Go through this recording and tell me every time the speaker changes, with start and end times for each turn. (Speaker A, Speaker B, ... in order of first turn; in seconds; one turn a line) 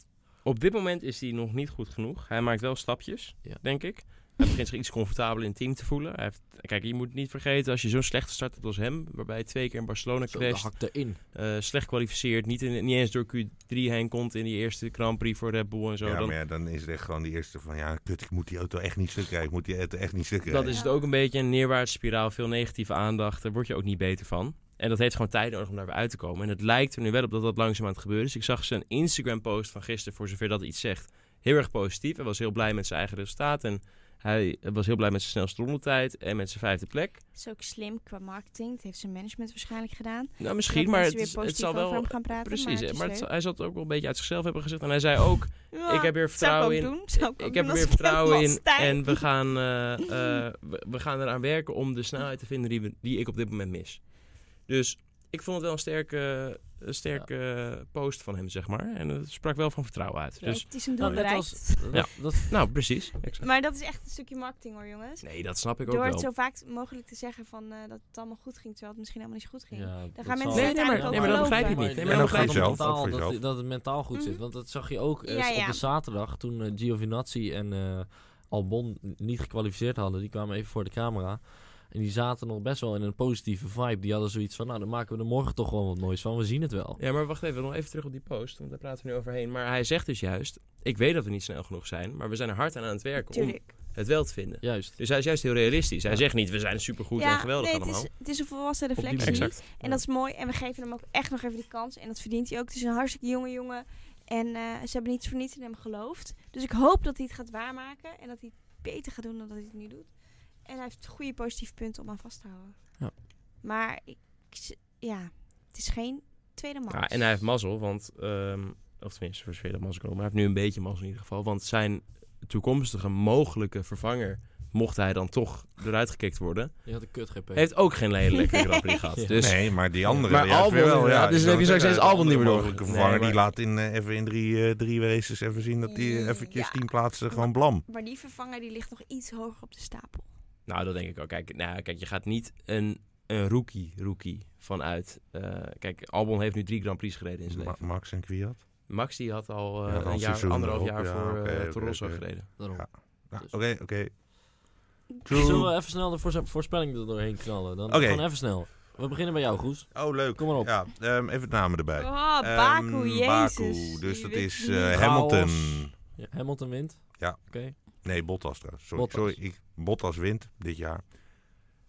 Speaker A: 0.4-16.3
Speaker B: 3.4-3.8
Speaker B: 10.3-11.2
Speaker C: 16.0-20.8
Speaker A: 20.4-37.2
Speaker D: 20.7-21.0
Speaker D: 37.3-43.3
Speaker A: 40.4-61.2
Speaker D: 45.7-49.2
Speaker D: 60.4-62.5
Speaker B: 60.4-62.7
Speaker A: 61.9-63.5
Speaker D: 63.4-72.0
Speaker A: 65.2-66.3
Speaker B: 69.7-87.0
Speaker A: 70.5-72.9
Speaker C: 72.0-73.4
Speaker D: 74.1-74.4
Speaker D: 75.2-75.8
Speaker A: 87.0-98.1
Speaker D: 93.3-93.7
Speaker B: 94.6-95.0
Speaker D: 97.2-117.1
Speaker B: 99.0-100.0
Speaker A: 99.2-99.6
Speaker A: 116.9-133.4
Speaker B: 126.8-127.7
Speaker D: 128.6-128.8
Speaker B: 129.2-129.5
Speaker C: 129.3-137.8
Speaker B: 130.0-130.3
Speaker D: 135.8-140.3
Speaker A: 140.7-147.9
Speaker C: 147.5-148.6
Speaker A: 148.9-152.5
Speaker C: 149.8-154.1
Speaker B: 152.6-153.5
Speaker C: 155.2-155.7
Speaker B: 155.3-160.8
Speaker D: 155.3-155.6
Speaker C: 157.9-158.5
Speaker C: 159.9-165.9
Speaker D: 161.9-165.0
Speaker B: 164.9-167.8
Speaker C: 167.2-171.5
Speaker B: 168.9-169.4